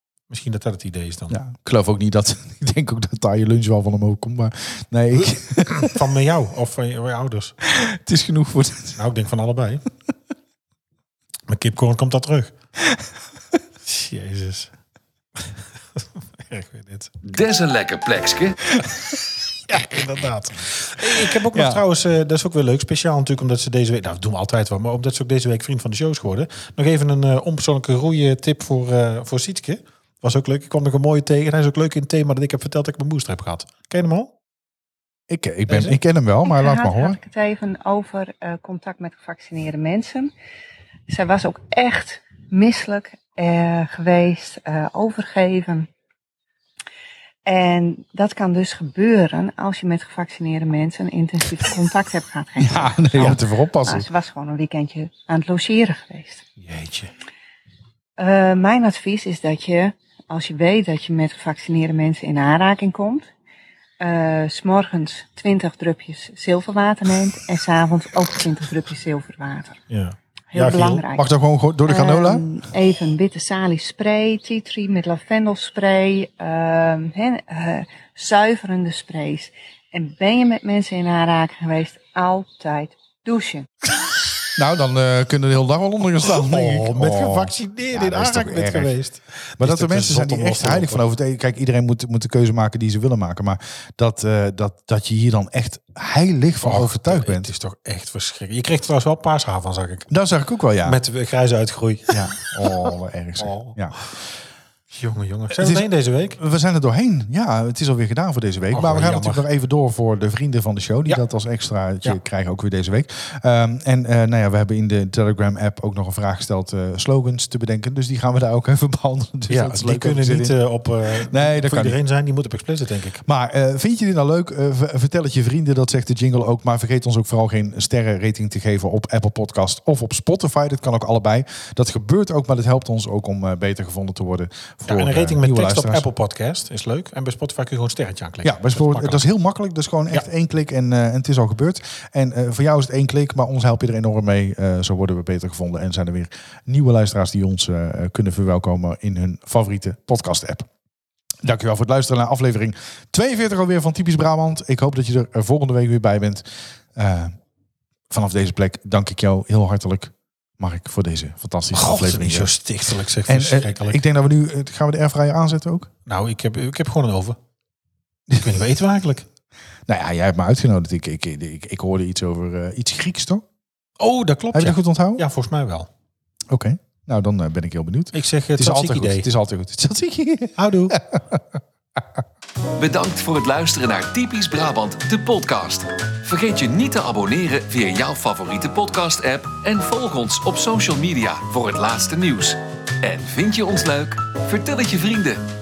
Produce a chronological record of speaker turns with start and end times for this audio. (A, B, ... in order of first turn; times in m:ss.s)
0:00.3-0:01.4 A
0:01.3-0:05.9 B
0:05.6-0:07.5 A
0:07.6-0:09.0 B
0:09.0-0:09.8 A
0:11.5-0:12.5 A
0:13.8-0:14.7 A
0:16.0-0:17.1 A
0:17.2-0:18.7 C
0:19.7-0:34.3 A
0:21.5-0:21.8 B
0:35.3-0:37.2 B
0:35.7-0:36.0 A
0:36.4-0:40.3 D
0:41.1-0:45.9 D
0:47.4-0:56.4 D
0:52.6-0:54.1 B
0:56.6-0:57.1 A
0:58.2-1:03.3 D
1:04.0-1:09.8 D
1:09.9-1:11.0 A
1:10.5-1:11.3 D
1:11.1-1:12.4 B
1:11.9-1:23.7 D
1:24.6-1:28.9 B
1:26.2-1:31.1 A
1:29.6-1:37.5 B
1:36.6-1:40.1 A
1:40.1-1:41.0 B
1:40.8-1:42.5 A
1:42.1-1:43.9 B
1:43.4-1:43.8 A
1:44.9-1:46.4 A
1:45.6-2:00.6 B
1:48.7-1:49.4 A
1:59.5-2:03.2 A
2:01.2-2:02.0 B
2:03.2-2:16.0 B
2:14.9-2:19.2 A
2:18.4-2:30.7 B
2:31.4-2:37.4 B
2:38.1-2:42.5 B
2:41.7-2:44.0 A
2:43.3-2:45.9 B
2:46.0-2:47.4 A
2:48.4-2:49.2 A
2:49.9-2:53.4 B
2:54.0-2:55.9 A
2:54.5-2:55.2 B
2:56.5-3:01.6 B
2:58.1-2:59.3 A
3:00.6-3:01.0 A
3:02.8-3:15.4 C